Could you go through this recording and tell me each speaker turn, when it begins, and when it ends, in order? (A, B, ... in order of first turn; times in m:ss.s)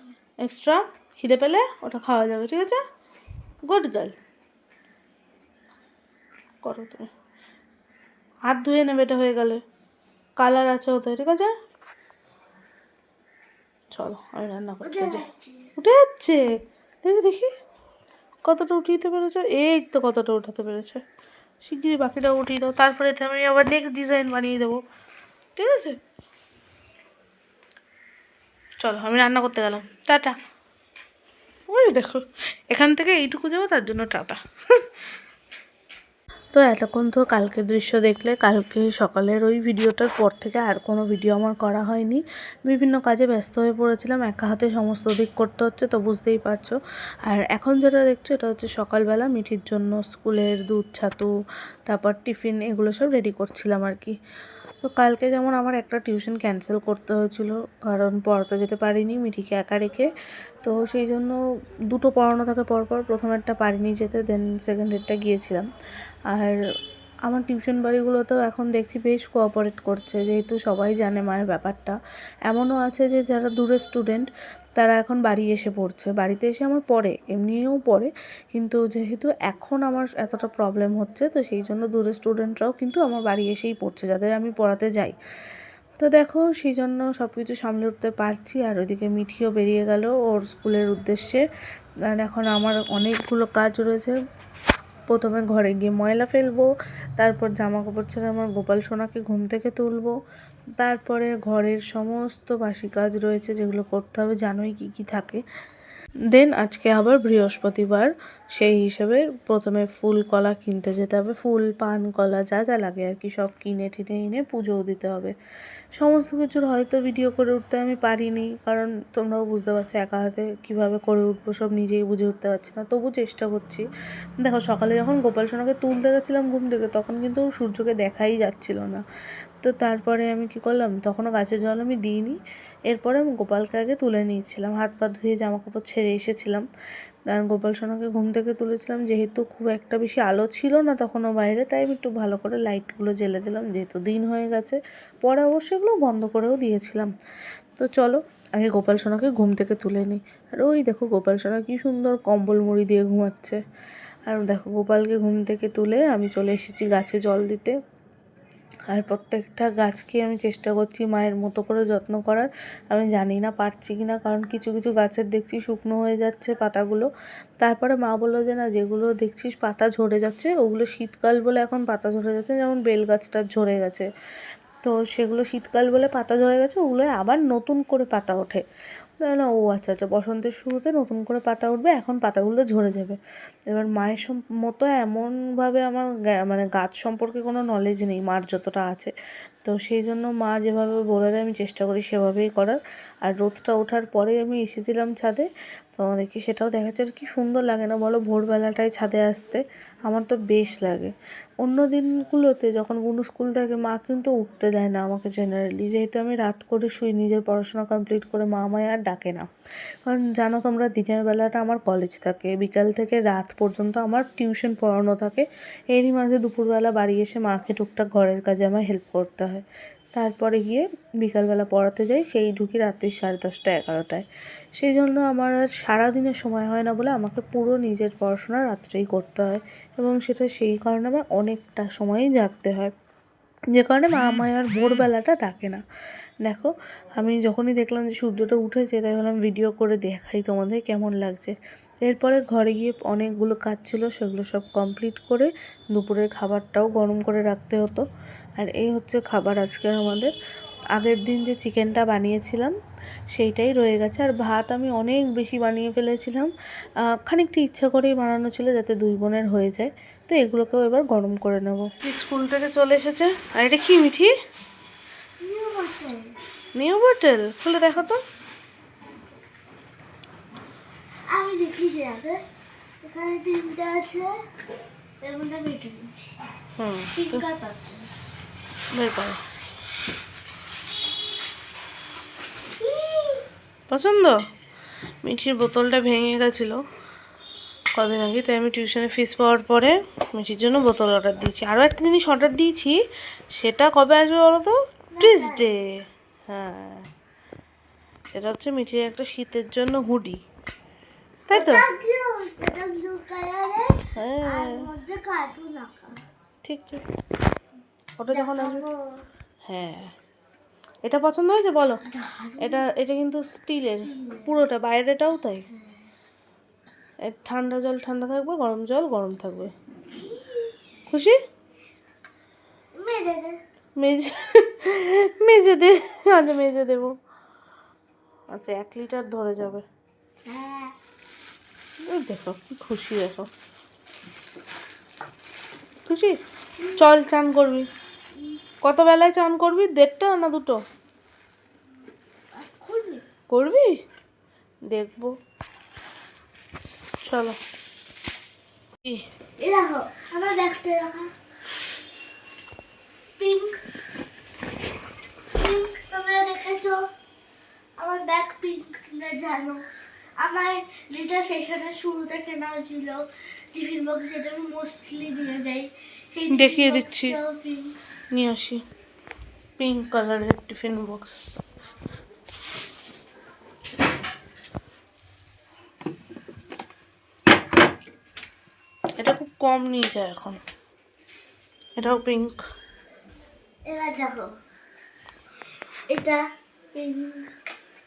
0:00.4-0:02.8 A
0:03.6-0:04.1 A
0:06.6-0:07.1 A
0:08.5-0:09.6 A
0:10.4-0:11.5 A
0:13.9-0:15.2 A
0:14.8-0:15.7 B
0:15.8-0:16.5 A
0:17.0-0:17.5 A
0:18.4-0:21.0 A
0:21.6-0:24.8 A
0:25.6-0:26.0 A
0:28.8-0:30.4 A
0:31.7-0:34.4 A
0:36.5-0:51.3 A
0:51.8-0:54.1 A
0:54.8-1:00.1 A
1:00.6-1:01.4 A
1:01.9-1:05.7 A
1:06.3-1:06.6 A
1:07.2-1:12.0 A
1:12.5-1:25.2 A
1:26.0-1:31.4 A
1:32.1-1:34.2 A
1:35.1-1:40.1 A
1:40.8-1:45.4 A
1:46.3-1:55.3 A
1:55.9-2:03.9 A
2:04.4-2:09.0 A
2:09.6-2:12.4 A
2:12.9-2:16.6 A
2:17.3-2:27.1 A
2:27.8-2:33.6 A
2:34.3-2:37.7 A
2:38.9-2:47.1 A
2:47.6-2:54.1 A
2:54.8-2:58.6 A
2:59.2-3:03.2 A
3:03.7-3:09.1 A
3:09.6-3:29.5 A
3:30.0-3:44.2 A
3:44.8-3:52.9 A
3:53.7-3:55.8 A
3:56.4-4:08.0 A
4:08.6-4:10.3 A
4:11.0-4:12.7 A
4:13.3-4:16.5 A
4:17.1-4:24.3 A
4:25.4-4:26.3 B
4:26.7-4:28.2 A
4:31.3-4:32.4 B
4:33.0-4:34.4 B
4:35.2-4:36.4 B
4:36.8-4:37.4 A
4:37.1-4:38.1 B
4:38.9-4:39.4 A
4:42.8-4:43.5 B
4:43.9-4:44.4 A
4:45.2-4:46.8 A
4:47.9-4:53.0 A
4:53.5-4:57.1 A
4:55.1-4:55.6 B
4:58.3-5:00.4 A
5:01.5-5:01.8 A
5:01.5-5:06.2 B
5:04.2-5:04.9 A
5:06.6-5:07.0 A
5:08.2-5:08.8 A
5:08.3-5:09.2 B
5:09.7-5:10.1 A
5:11.0-5:12.0 A
5:12.0-5:12.8 B
5:12.6-5:15.6 A
5:14.0-5:14.5 B
5:17.2-5:19.7 A
5:20.1-5:20.8 B
5:21.1-5:21.4 A
5:22.9-5:23.6 B
5:24.0-5:27.2 A
5:28.5-5:29.8 A
5:30.4-5:30.9 B
5:32.0-5:33.5 A
5:36.0-5:36.4 A
5:36.8-5:37.0 B
5:37.0-5:37.9 A
5:38.8-5:40.8 A
5:42.5-5:43.2 B
5:43.5-5:43.9 A
5:44.9-5:45.3 A
5:47.2-5:47.6 A
5:49.6-5:51.3 B
5:53.4-5:53.8 B
5:55.5-5:57.0 B
5:58.0-5:59.8 B
6:00.4-6:08.0 B
6:06.5-6:07.4 A
6:08.3-6:08.8 A
6:09.8-6:11.4 A
6:19.2-6:20.6 A
6:22.0-6:22.6 A
6:23.8-6:24.6 B
6:26.1-6:27.5 B